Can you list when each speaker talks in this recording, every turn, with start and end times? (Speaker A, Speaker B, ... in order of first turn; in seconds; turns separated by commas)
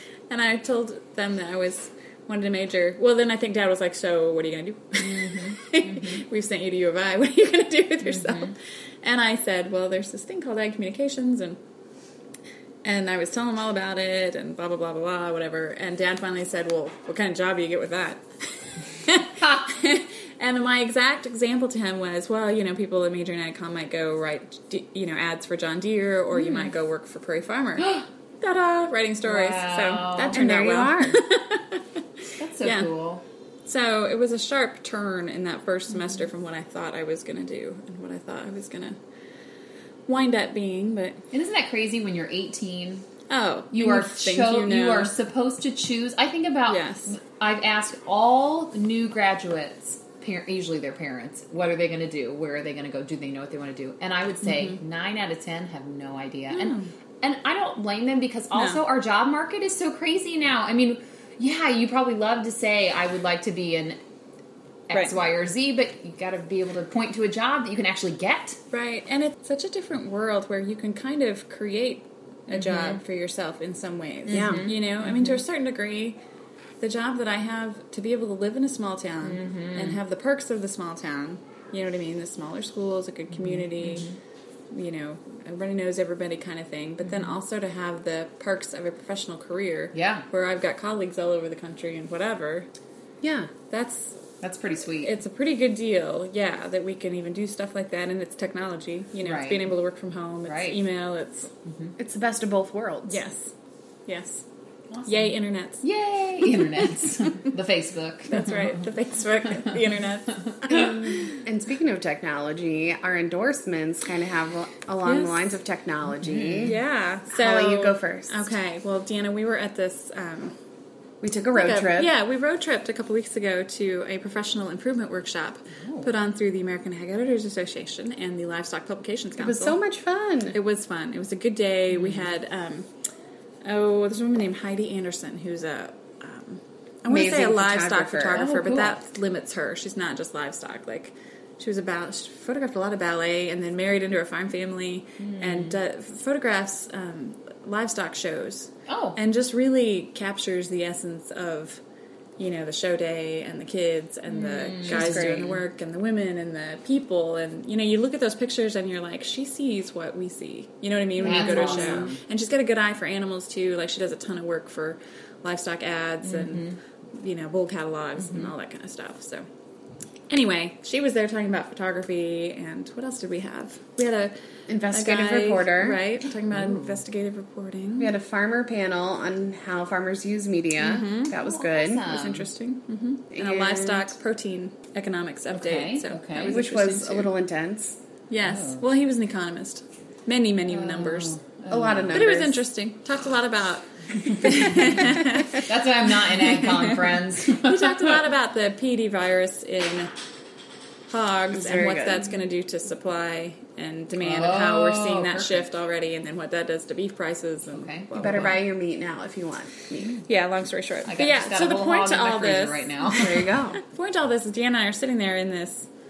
Speaker A: 0.3-11.6, Speaker B: 5.0-6.2, Speaker B: 8.1-8.5, Speaker A: 12.8-31.9, Speaker B: 29.2-30.4, Speaker C: 30.3-31.2, Speaker B: 32.4-33.2, Speaker A: 32.6-32.9, Speaker A: 33.7-39.0, Speaker A: 40.1-41.2, Speaker B: 41.3-43.1, Speaker A: 43.3-45.1, Speaker B: 43.7-64.0, Speaker A: 46.7-47.1, Speaker A: 56.5-56.9, Speaker A: 58.5-58.8, Speaker B: 64.9-68.6, Speaker A: 68.7-76.2, Speaker B: 72.5-73.0, Speaker B: 74.3-75.3, Speaker C: 74.3-74.7, Speaker A: 76.8-84.1, Speaker B: 79.3-80.0, Speaker B: 83.4-84.2, Speaker A: 84.7-92.7, Speaker B: 89.9-90.3, Speaker C: 93.2-93.5, Speaker A: 93.7-94.2, Speaker B: 94.4-95.1, Speaker A: 95.0-101.5, Speaker B: 99.2-99.7, Speaker B: 100.5-100.8, Speaker B: 101.7-101.9, Speaker C: 102.0-103.2, Speaker A: 103.1-103.5, Speaker A: 104.1-104.5, Speaker B: 104.9-108.8, Speaker A: 105.1-105.8, Speaker A: 106.5-107.3, Speaker A: 108.3-111.4, Speaker C: 110.7-116.8, Speaker A: 115.1-115.4, Speaker B: 116.2-116.7, Speaker A: 116.6-120.5, Speaker C: 117.3-118.4, Speaker C: 121.2-122.1, Speaker A: 121.5-129.8, Speaker B: 125.8-126.1, Speaker C: 129.4-130.6, Speaker A: 130.5-132.9, Speaker A: 133.7-151.8, Speaker C: 137.1-138.4, Speaker B: 137.2-138.9, Speaker B: 145.2-145.7, Speaker B: 148.9-149.2, Speaker A: 152.4-169.5, Speaker B: 154.3-155.6, Speaker B: 161.2-162.2, Speaker C: 161.7-162.1, Speaker B: 166.3-166.7, Speaker A: 170.3-174.3, Speaker C: 174.7-176.0, Speaker A: 174.9-178.1, Speaker B: 176.5-177.0, Speaker C: 178.0-182.1, Speaker A: 180.8-181.3, Speaker B: 181.3-182.5, Speaker A: 182.0-187.3, Speaker C: 183.3-184.1, Speaker B: 185.5-186.7, Speaker C: 186.4-188.0, Speaker A: 188.3-191.4, Speaker B: 188.4-188.8, Speaker B: 190.7-192.3, Speaker C: 191.7-192.6, Speaker A: 192.1-195.7, Speaker B: 194.4-198.2, Speaker A: 196.4-200.1, Speaker A: 201.1-208.6, Speaker C: 201.5-202.3, Speaker B: 204.2-205.7, Speaker B: 207.7-208.6, Speaker C: 208.2-210.2, Speaker A: 210.1-213.2, Speaker B: 211.1-213.6, Speaker C: 213.1-213.8, Speaker A: 213.7-215.9